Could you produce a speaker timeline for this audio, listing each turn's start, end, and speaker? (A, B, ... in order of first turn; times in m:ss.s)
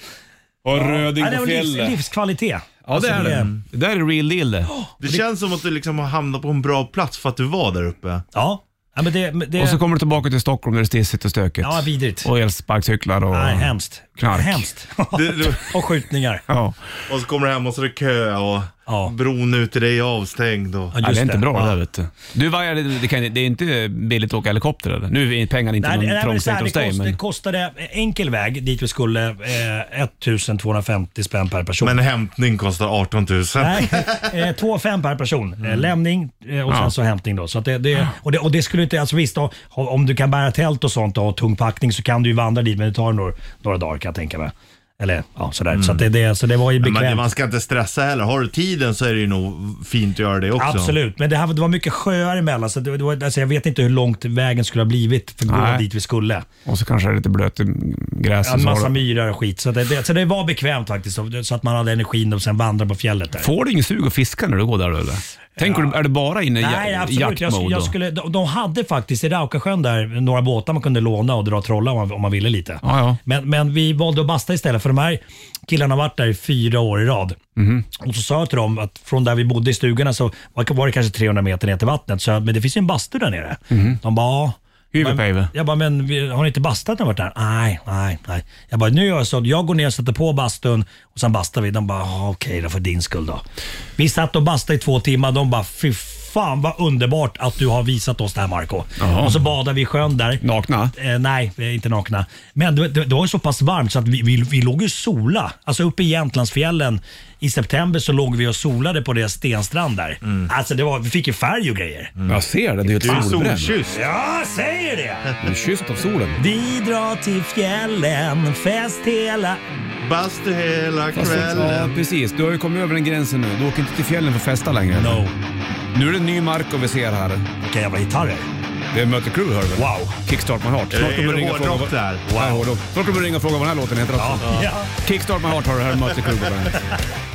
0:00.6-0:02.0 A
0:00.7-0:03.5 B
0:02.8-0:04.7 A
0:03.2-0:03.6 C
0:04.8-0:05.2 B
0:05.0-0:08.2 C
0:08.3-0:09.8 B
0:09.6-0:14.6 A
0:11.6-0:12.3 B
0:13.3-0:16.4 B
0:15.1-0:15.8 C
0:16.5-0:17.0 A
0:17.1-0:21.0 C
0:18.9-0:19.1 B
0:20.9-0:21.8 B
0:21.0-0:27.2 A
0:25.8-0:32.0 B
0:31.8-0:34.3 C
0:33.6-0:47.2 B
0:45.7-0:46.0 C
0:46.8-0:50.9 C
0:50.6-0:56.4 B
0:55.5-0:55.8 A
0:56.6-0:58.9 A
0:58.4-1:03.5 B
1:03.4-1:07.9 A
1:05.6-1:06.0 B
1:06.6-1:17.4 B
1:12.8-1:13.2 A
1:17.6-1:17.8 A
1:17.9-1:33.4 B
1:23.7-1:24.0 A
1:24.9-1:25.5 A
1:34.0-1:40.4 B
1:39.0-1:39.4 A
1:40.4-1:40.9 A
1:40.9-1:52.1 B
1:52.3-1:53.8 A
1:53.0-1:54.0 C
1:53.0-1:53.3 B
1:53.9-1:55.3 B
1:55.4-1:56.4 A
1:56.4-1:59.6 B
2:00.0-2:02.0 C
2:01.1-2:05.2 A
2:04.9-2:05.3 B
2:05.9-2:07.5 A
2:07.6-2:08.4 B
2:08.9-2:16.9 A
2:09.7-2:10.2 B
2:10.9-2:12.2 C
2:12.2-2:12.6 B
2:14.2-2:14.9 B